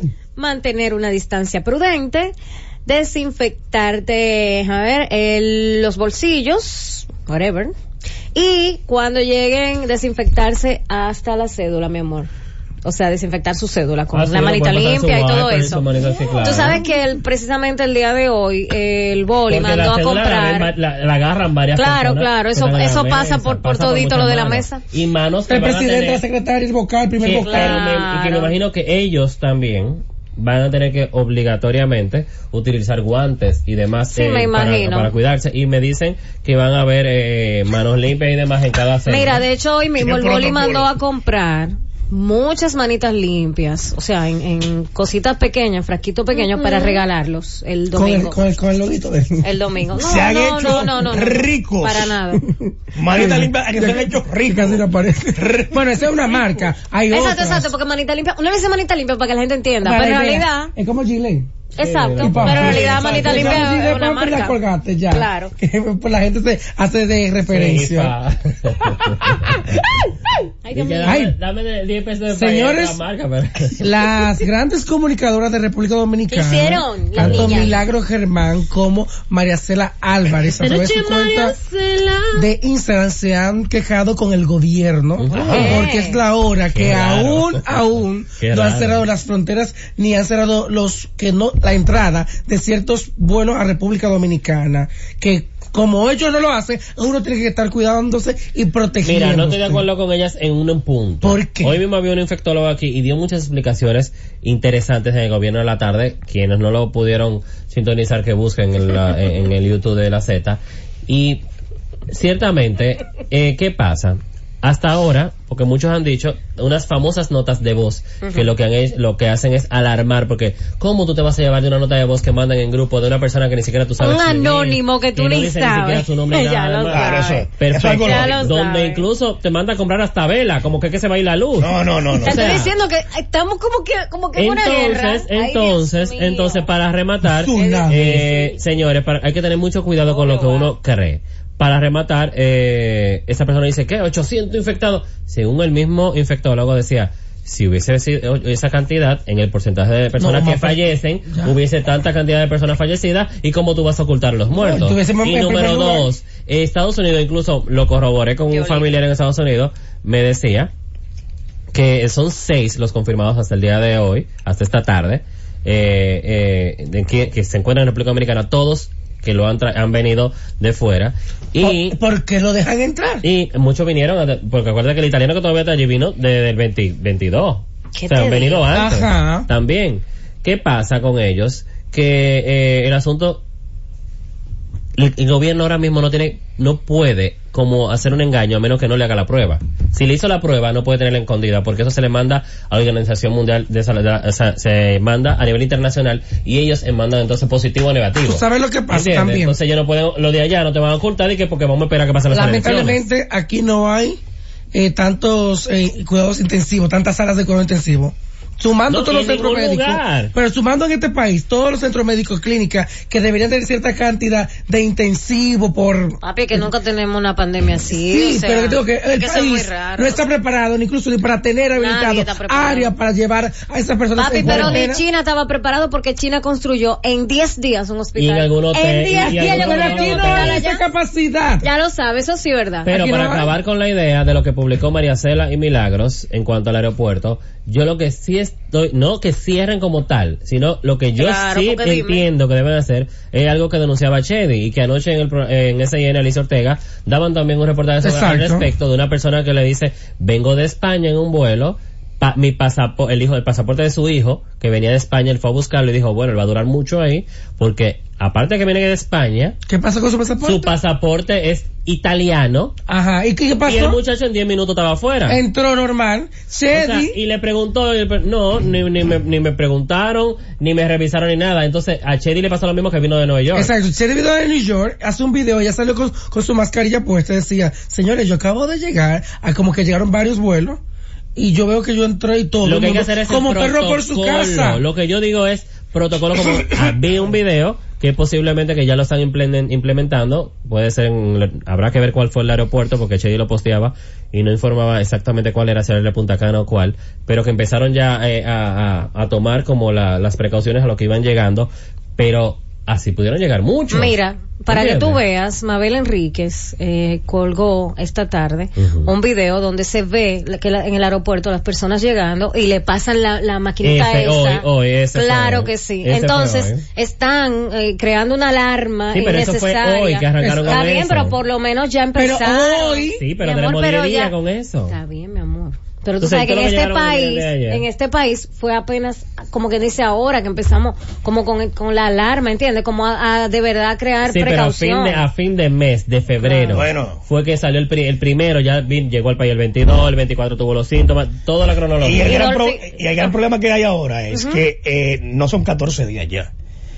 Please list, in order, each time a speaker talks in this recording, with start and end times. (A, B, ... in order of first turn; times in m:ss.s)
0:00.4-0:02.3 A
0:02.8-0:07.7 A
0:08.3-0:12.3 A
0:12.8-0:15.9 A
0:14.1-0:16.8 B
0:16.4-0:20.7 A
0:19.5-0:26.2 B
0:21.8-0:24.8 A
0:25.5-0:27.8 C
0:27.2-0:39.4 B
0:27.4-0:28.5 A
0:34.1-0:35.1 A
0:39.0-0:48.4 A
0:40.0-0:40.9 D
0:46.4-0:47.0 C
0:47.9-0:49.4 C
0:49.4-0:52.4 A
0:50.0-0:52.1 D
0:52.3-0:57.7 C
0:52.9-0:54.8 D
0:55.4-0:56.0 D
0:57.1-1:00.7 A
0:59.8-1:01.5 C
1:01.8-1:03.2 B
1:01.8-1:04.6 A
1:02.2-1:08.1 C
1:02.5-1:03.7 D
1:05.1-1:05.5 A
1:07.5-1:09.6 B
1:08.8-1:10.5 C
1:10.6-1:11.2 A
1:10.7-1:13.9 B
1:11.0-1:11.4 C
1:12.3-1:13.0 C
1:13.8-1:21.6 C
1:16.3-1:17.8 A
1:17.2-1:17.7 B
1:20.6-1:22.5 B
1:22.3-1:39.8 C
1:25.2-1:25.8 B
1:25.3-1:26.2 A
1:26.7-1:29.0 B
1:39.0-1:51.4 B
1:41.2-1:41.8 C
1:52.1-2:12.7 B
1:58.2-1:58.5 A
2:04.0-2:07.5 A
2:06.9-2:08.4 D
2:08.0-2:09.0 A
2:11.6-2:12.6 D
2:12.2-2:16.7 A
2:14.4-2:40.7 B
2:17.2-2:18.3 C
2:17.5-2:18.6 A
2:20.0-2:20.7 A
2:30.2-2:31.6 C
2:34.5-2:36.1 C
2:38.5-2:38.9 A
2:41.7-2:52.0 B
2:51.6-2:53.2 C
2:53.2-3:03.4 B
2:57.9-2:58.6 A
2:58.7-2:59.5 C
3:05.0-3:23.0 B
3:18.2-3:19.6 C
3:22.3-3:24.2 C
3:24.7-3:36.6 C
3:28.9-3:30.3 B
3:36.2-3:40.2 A
3:37.9-3:45.0 C
3:41.7-3:42.9 A
3:44.2-3:50.8 A
3:44.4-3:44.8 B
3:48.2-3:50.6 B
3:49.1-3:51.7 C
3:51.6-3:52.9 A
3:52.8-4:19.6 B
3:52.9-3:53.5 C
4:01.2-4:02.2 A
4:08.0-4:08.7 C
4:19.7-4:20.7 C
4:20.4-4:22.7 B
4:22.9-4:24.0 C
4:23.6-4:25.4 B
4:25.3-4:27.2 C
4:26.7-4:33.7 B
4:33.5-4:40.8 C
4:41.4-4:44.8 C
4:42.6-5:04.1 B
5:03.9-5:24.3 A
5:04.7-5:05.2 B
5:08.8-5:09.1 B
5:13.8-5:16.8 B
5:19.1-5:21.4 B
5:20.4-5:20.9 C
5:22.1-5:23.2 C
5:23.2-5:25.0 B
5:24.9-5:35.2 A
5:26.2-5:27.8 B
5:34.2-5:42.4 B
5:36.4-5:36.8 A
5:36.7-5:37.2 D
5:42.0-5:46.5 D
5:42.2-5:43.3 A
5:44.3-5:44.6 A